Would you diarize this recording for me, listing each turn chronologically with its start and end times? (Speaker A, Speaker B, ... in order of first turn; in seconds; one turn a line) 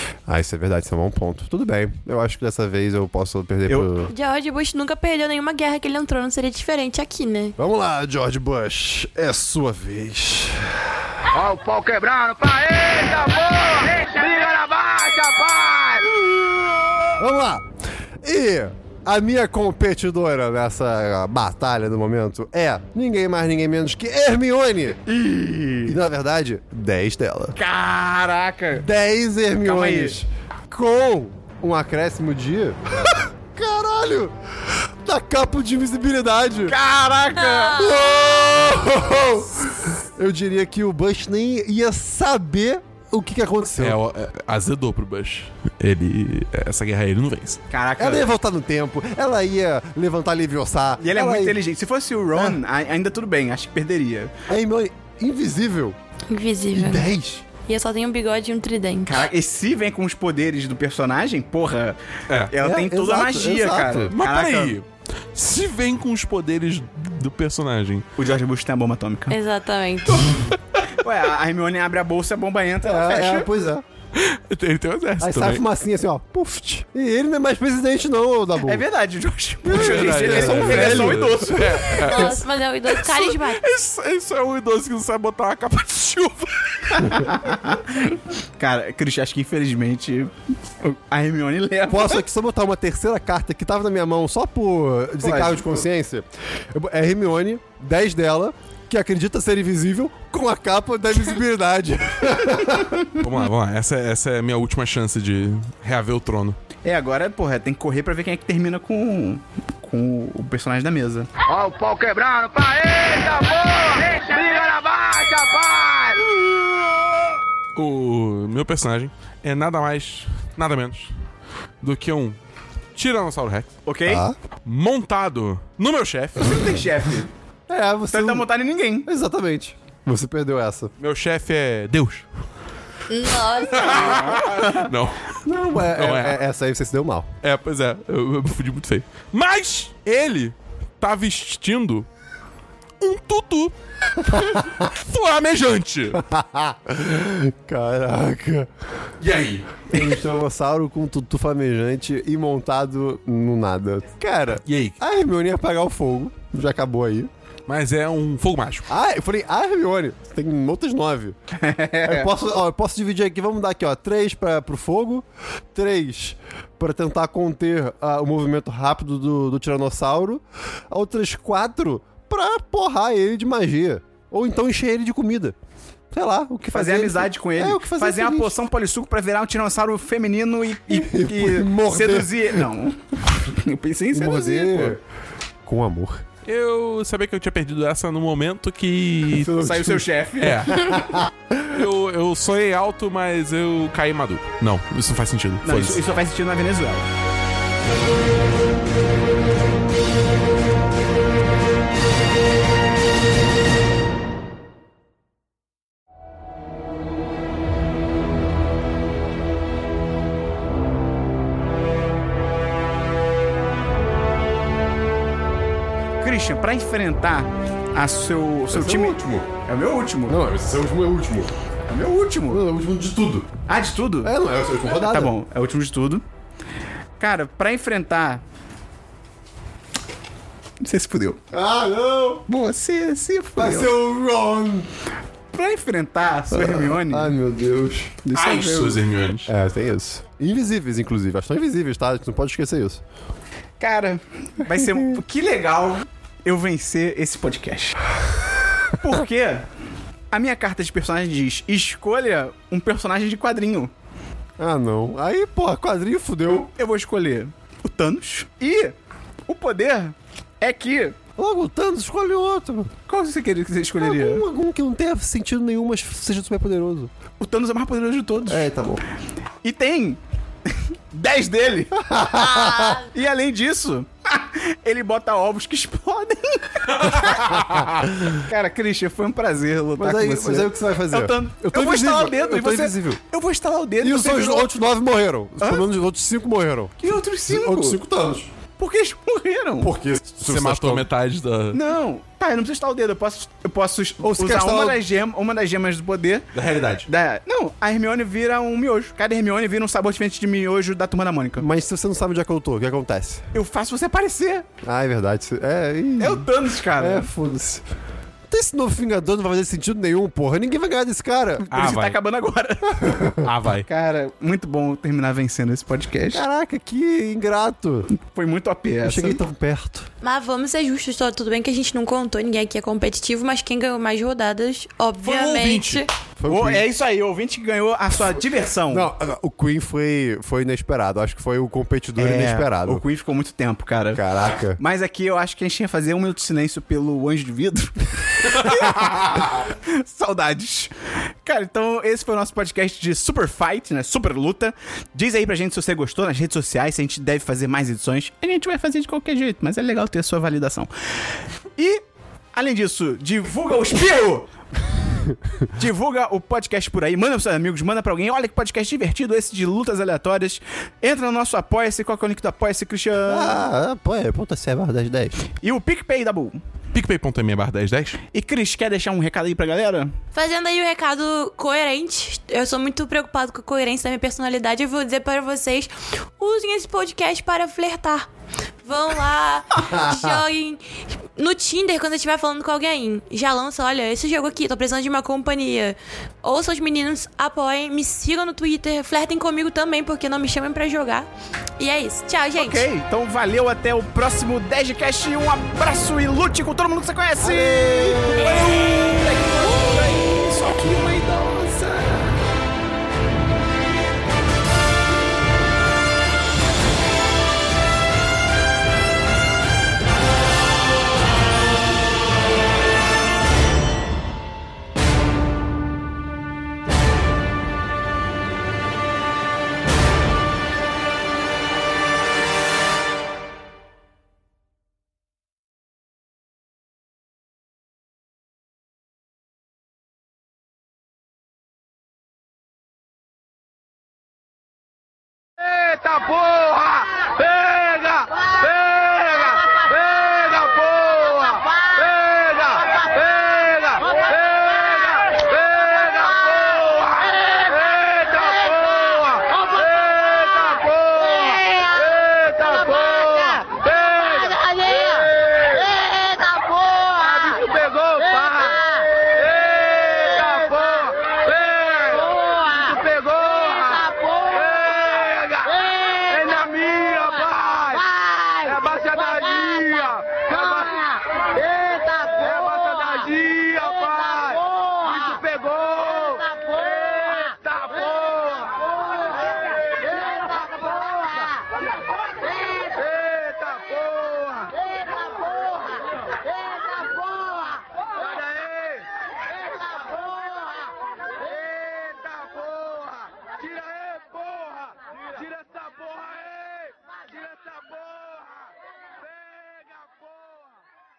Speaker A: 0.3-4.1
Speaker B: 4.0-7.5
Speaker A: 7.6-11.1
Speaker C: 11.3-16.1
Speaker A: 17.2-17.6
Speaker A: 18.2-25.0
Speaker D: 25.1-26.0
Speaker A: 25.8-27.6
Speaker D: 27.6-28.9
Speaker A: 28.8-36.8
Speaker D: 29.6-30.2
Speaker D: 36.7-37.8
Speaker B: 37.3-38.3
Speaker A: 37.8-44.0
Speaker E: 43.8-47.6
Speaker D: 47.7-48.3
Speaker A: 48.0-51.6
Speaker D: 51.0-54.3
Speaker A: 52.3-52.6
Speaker A: 54.5-56.0
Speaker B: 56.3-57.0
Speaker A: 56.7-57.4
Speaker B: 57.7-59.2
Speaker D: 59.0-62.0
Speaker D: 62.5-64.7
Speaker A: 62.6-64.1
Speaker E: 64.1-68.1
Speaker D: 68.2-69.4
Speaker B: 69.3-70.3
Speaker D: 70.0-73.5
Speaker A: 72.8-73.8
Speaker E: 74.1-75.6
Speaker A: 75.2-78.8
Speaker D: 78.6-82.1
Speaker A: 79.6-81.8
Speaker E: 79.7-87.2
Speaker B: 81.8-83.6
Speaker D: 86.9-92.2
Speaker A: 91.9-103.1
Speaker D: 95.2-95.8
Speaker E: 103.2-106.6
Speaker D: 106.8-111.3
Speaker C: 111.4-116.2
Speaker E: 117.7-121.1
Speaker E: 121.8-122.4
Speaker E: 122.9-123.8
Speaker D: 123.8-124.2
Speaker A: 124.0-124.4
Speaker E: 124.6-126.7
Speaker D: 126.4-127.3
Speaker A: 127.7-128.5
Speaker D: 128.1-129.1
Speaker A: 129.0-130.9
Speaker E: 131.0-132.2
Speaker B: 133.1-134.3
Speaker E: 133.6-136.4
Speaker D: 133.8-134.9
Speaker A: 135.4-137.3
Speaker E: 137.4-142.1
Speaker E: 143.0-146.2
Speaker A: 144.3-144.9
Speaker A: 146.1-148.7
Speaker E: 149.2-149.9
Speaker A: 149.9-157.3
Speaker E: 154.7-155.0
Speaker E: 157.7-158.9
Speaker A: 158.9-161.3
Speaker D: 161.6-162.3
Speaker A: 162.0-175.5
Speaker A: 176.1-178.6
Speaker D: 176.7-185.0
Speaker A: 180.9-182.7
Speaker A: 184.1-185.0
Speaker A: 185.6-186.2
Speaker E: 186.4-196.0
Speaker D: 189.4-190.8
Speaker A: 189.7-189.9
Speaker A: 190.7-191.8
Speaker D: 195.6-197.1
Speaker D: 216.2-220.4
Speaker A: 218.7-219.5
Speaker A: 220.3-221.5
Speaker D: 221.9-222.6
Speaker A: 222.5-223.5
Speaker D: 223.7-224.3
Speaker A: 224.2-225.3
Speaker D: 224.8-226.2
Speaker D: 227.2-228.4
Speaker D: 230.8-231.4
Speaker A: 231.5-232.4
Speaker D: 232.5-233.9
Speaker A: 233.6-234.9
Speaker D: 235.5-237.3
Speaker A: 236.5-238.2
Speaker D: 238.2-239.0
Speaker E: 238.3-239.5
Speaker A: 239.5-243.0
Speaker D: 243.8-248.0
Speaker A: 244.7-245.2
Speaker D: 249.0-249.7
Speaker D: 250.3-253.9
Speaker A: 254.6-256.7
Speaker D: 256.8-258.9
Speaker D: 259.5-261.2
Speaker A: 261.4-262.9
Speaker D: 263.1-264.4
Speaker A: 264.0-267.1
Speaker D: 267.4-268.7
Speaker A: 268.5-269.0
Speaker D: 269.6-271.9
Speaker A: 271.9-273.0
Speaker B: 272.2-273.1
Speaker D: 273.1-277.6
Speaker E: 276.9-277.9
Speaker A: 277.6-278.4
Speaker D: 278.4-284.7
Speaker A: 280.0-283.2
Speaker A: 284.0-286.9
Speaker D: 285.6-285.9
Speaker D: 287.0-288.0
Speaker A: 287.5-288.5
Speaker D: 288.8-289.9
Speaker A: 289.8-291.1
Speaker E: 290.4-291.8
Speaker D: 291.7-296.5
Speaker A: 294.2-295.0
Speaker E: 296.5-297.1
Speaker D: 297.1-301.6
Speaker A: 301.6-303.5
Speaker D: 303.5-304.7
Speaker A: 304.8-307.8
Speaker D: 306.2-307.3
Speaker A: 308.5-311.6
Speaker D: 311.6-313.2
Speaker E: 311.7-312.2
Speaker A: 313.0-313.5
Speaker E: 313.4-313.9
Speaker D: 313.9-316.4
Speaker A: 316.3-318.1
Speaker D: 318.1-319.4
Speaker A: 319.0-320.1
Speaker B: 320.2-326.1
Speaker E: 325.2-326.0
Speaker A: 326.4-326.9
Speaker D: 326.5-329.1
Speaker A: 328.9-333.0
Speaker D: 332.2-334.2
Speaker A: 334.1-334.8
Speaker D: 334.8-350.9
Speaker D: 351.8-354.5
Speaker D: 355.8-363.6
Speaker A: 363.2-365.4
Speaker D: 365.6-366.6
Speaker E: 366.9-368.2
Speaker D: 368.3-370.1
Speaker B: 370.3-378.3
Speaker B: 378.8-380.8
Speaker A: 379.8-380.4
Speaker B: 381.4-392.9
Speaker D: 392.6-402.4
Speaker A: 397.4-398.7
Speaker C: 435.7-478.9
Speaker C: 480.3-481.4
Speaker C: 482.6-484.8
Speaker C: 488.3-489.0
Speaker C: 491.8-498.4